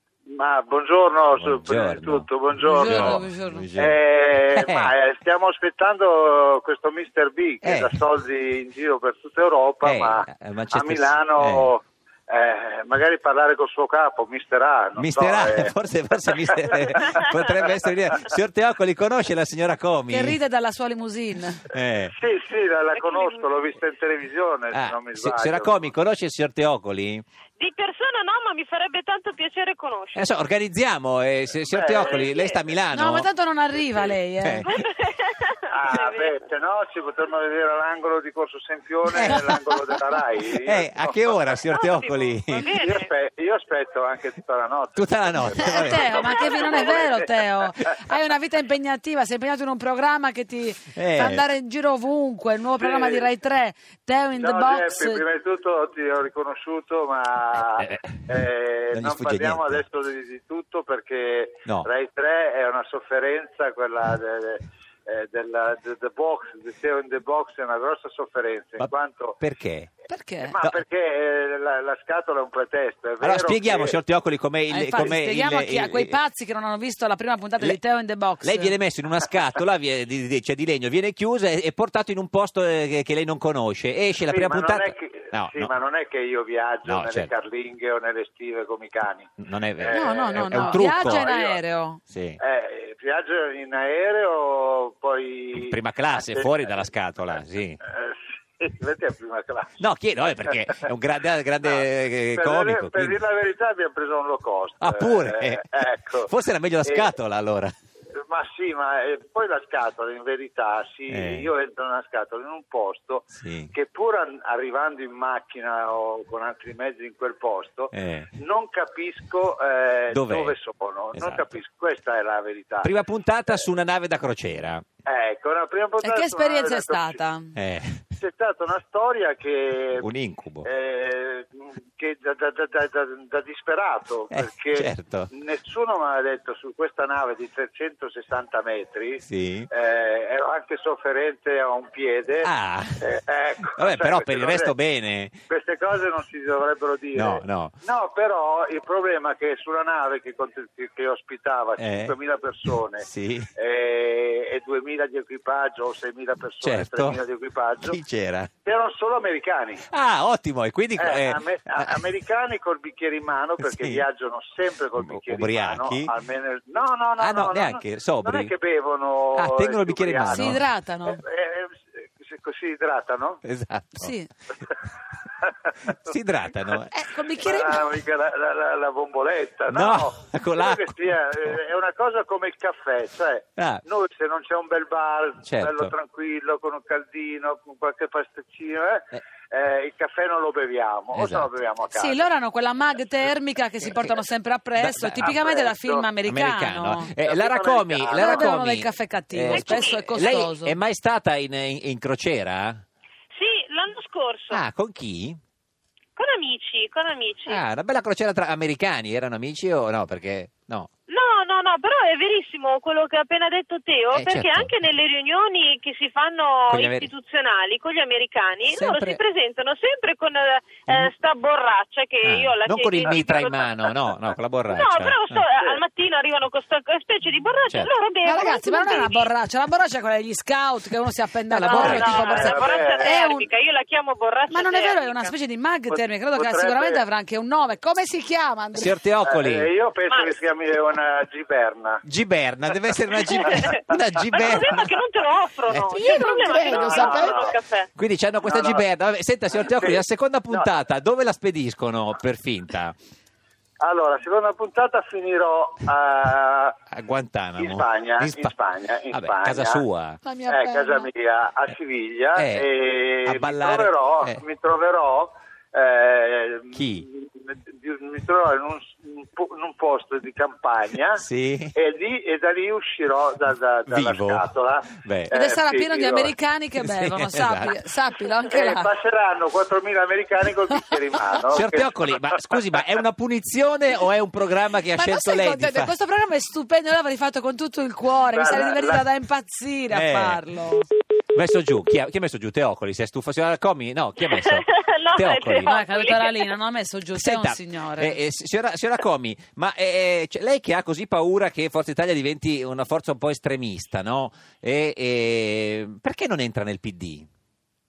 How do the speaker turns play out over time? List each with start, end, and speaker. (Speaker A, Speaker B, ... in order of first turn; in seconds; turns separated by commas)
Speaker A: 0.3-3.2, Speaker B: 1.3-4.0, Speaker C: 2.6-3.7, Speaker A: 3.8-15.7, Speaker B: 4.5-4.9, Speaker B: 7.6-8.0, Speaker B: 9.8-11.7, Speaker B: 15.0-20.4, Speaker A: 16.4-17.2, Speaker C: 20.1-21.6, Speaker B: 21.7-22.1, Speaker A: 22.0-25.9, Speaker D: 22.9-23.4, Speaker B: 24.7-27.2, Speaker D: 27.6-30.3, Speaker B: 30.1-33.3, Speaker A: 31.6-32.3, Speaker D: 32.0-32.6, Speaker C: 32.9-34.7, Speaker B: 34.0-34.7, Speaker D: 34.6-36.4, Speaker A: 35.7-41.5, Speaker B: 39.1-40.0, Speaker B: 40.6-42.7, Speaker D: 41.7-43.1, Speaker A: 42.6-47.8, Speaker B: 45.0-46.2, Speaker C: 45.5-55.2, Speaker B: 51.0-51.4, Speaker A: 52.8-53.3, Speaker A: 54.4-69.4, Speaker B: 57.7-58.1, Speaker B: 58.9-59.8, Speaker B: 68.8-69.9, Speaker C: 70.1-70.5, Speaker A: 70.4-74.0, Speaker B: 73.2-76.2, Speaker C: 74.7-78.7, Speaker B: 78.4-85.7, Speaker A: 84.3-91.6, Speaker B: 86.8-87.3, Speaker B: 89.4-91.3, Speaker C: 89.9-92.0, Speaker B: 92.1-92.4, Speaker A: 92.4-96.5, Speaker B: 95.5-97.8, Speaker A: 97.8-99.8, Speaker B: 99.8-103.2, Speaker A: 101.7-106.3, Speaker B: 104.8-107.7, Speaker A: 106.8-107.1, Speaker A: 108.3-122.9, Speaker B: 111.1-111.5, Speaker B: 113.3-113.7, Speaker B: 117.9-118.3, Speaker B: 120.1-120.5, Speaker B: 121.1-121.5, Speaker B: 122.8-124.8, Speaker A: 125.0-127.2, Speaker C: 126.0-127.5, Speaker B: 127.5-128.0, Speaker A: 128.2-130.1, Speaker B: 130.0-130.7, Speaker A: 130.6-144.8, Speaker B: 134.3-135.3, Speaker B: 139.2-139.7, Speaker B: 142.4-143.0, Speaker B: 143.8-145.3, Speaker A: 145.5-158.0, Speaker B: 147.1-147.7, Speaker B: 151.8-152.1, Speaker B: 153.0-153.5, Speaker B: 156.6-157.2, Speaker B: 157.8-158.5, Speaker A: 158.6-159.8, Speaker B: 159.9-161.9, Speaker A: 160.9-173.4, Speaker B: 163.8-164.0, Speaker B: 165.0-166.1, Speaker B: 167.2-168.5, Speaker B: 169.3-170.6, Speaker C: 170.3-171.2, Speaker B: 173.4-174.1, Speaker C: 173.9-174.3, Speaker A: 175.4-175.7, Speaker B: 176.1-176.9, Speaker C: 176.9-177.8, Speaker A: 177.4-192.2, Speaker B: 179.7-180.9, Speaker B: 183.6-183.8, Speaker B: 185.4-185.9, Speaker B: 191.1-191.5, Speaker C: 191.9-197.1, Speaker B: 194.8-195.3, Speaker A: 195.2-196.1, Speaker B: 196.2-202.8, Speaker A: 197.2-198.6, Speaker C: 198.2-200.8, Speaker D: 199.5-200.4, Speaker D: 203.3-204.6, Speaker B: 204.5-205.4, Speaker D: 206.2-207.6, Speaker B: 207.5-210.9, Speaker D: 211.1-224.0, Speaker B: 214.1-214.7, Speaker B: 216.7-217.1, Speaker B: 218.7-219.2, Speaker B: 222.2-225.4, Speaker D: 224.7-229.3, Speaker C: 228.2-233.5, Speaker B: 231.5-232.2, Speaker D: 231.6-235.3, Speaker A: 231.8-233.1, Speaker C: 234.5-238.9, Speaker A: 235.9-237.0, Speaker B: 238.7-239.7, Speaker A: 239.2-242.0, Speaker D: 240.1-240.3, Speaker B: 242.0-244.9, Speaker D: 243.3-243.7, Speaker D: 244.3-247.9, Speaker B: 245.7-246.0, Speaker C: 245.9-247.3, Speaker A: 246.4-247.6, Speaker B: 247.9-252.9, Speaker A: 248.4-248.8, Speaker A: 249.6-250.7, Speaker A: 253.8-256.8, Speaker B: 256.9-258.5, Speaker A: 257.6-259.8, Speaker B: 259.1-260.2, Speaker C: 260.2-261.1, Speaker A: 260.5-276.3, Speaker B: 262.3-262.7, Speaker B: 263.2-264.4, Speaker B: 266.7-267.0, Speaker B: 271.1-271.7, Speaker B: 273.9-275.3, Speaker C: 275.3-278.9, Speaker B: 276.8-277.8, Speaker A: 278.5-282.5, Speaker B: 281.5-285.9, Speaker C: 284.9-290.9, Speaker A: 288.3-289.1, Speaker B: 289.9-290.4, Speaker B: 291.3-295.7, Speaker D: 294.2-296.6, Speaker C: 295.6-298.2, Speaker B: 297.1-307.3